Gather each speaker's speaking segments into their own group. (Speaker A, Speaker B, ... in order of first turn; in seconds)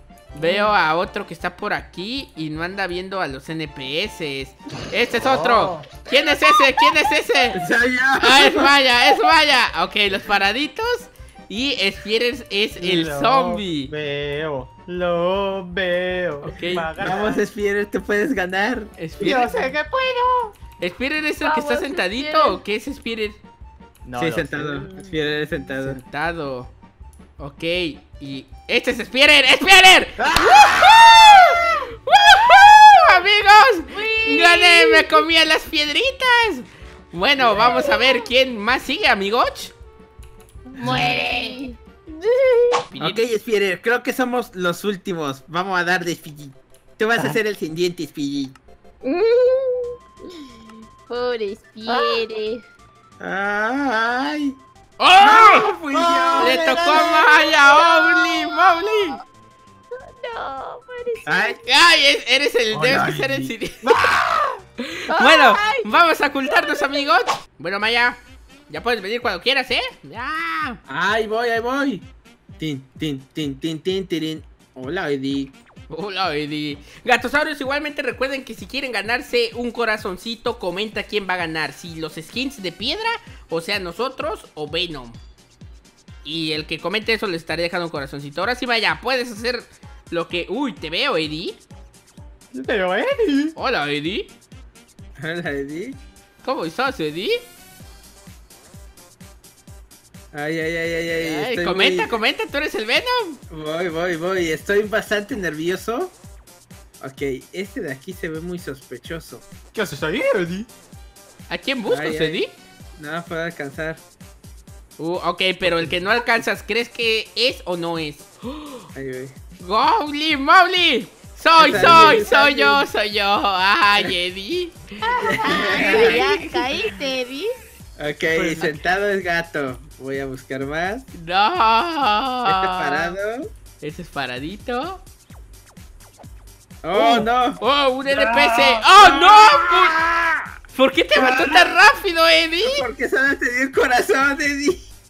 Speaker A: 0.3-7.6, 8.2-13.9, 16.4-16.9, 19.0-19.7, 20.8-23.4, 25.8-26.7, 27.4-39.8, 42.9-43.2, 55.0-55.7, 56.4-59.2, 61.6-64.0, 64.8-70.8, 75.9-85.2, 86.2-91.6, 93.6-94.3, 96.4-97.4, 101.1-103.4, 111.5-112.5, 115.0-118.8, 119.6-125.1, 131.1-133.2, 133.8-135.0, 137.6-140.0, 140.7-142.8
Speaker B: 5.2-6.0, 12.8-17.4, 19.2-20.6, 24.1-25.1, 30.2-31.5, 37.4-37.7, 40.7-41.6, 55.9-57.0, 63.8-64.6, 92.5-93.5, 109.7-110.7, 128.3-128.8, 136.9-137.3, 138.1-138.9
Speaker C: 7.5-8.7, 17.0-18.9, 24.2-26.0, 43.0-48.6, 53.2-54.6, 55.2-57.3, 61.2-61.6, 62.7-63.5, 70.9-72.1, 72.6-75.5, 95.2-96.0, 100.3-102.2, 103.5-106.1, 107.0-109.4, 111.9-112.4, 113.0-114.0, 119.0-119.4, 121.5-122.9, 125.2-126.3, 128.0-131.1, 132.5-133.5, 136.8-137.6, 138.9-140.2, 142.6-144.8
Speaker D: 21.4-22.6, 33.9-35.2, 37.5-38.3, 40.8-42.9, 49.0-52.6, 56.8-59.2, 60.0-61.6, 65.1-67.2, 125.1-127.5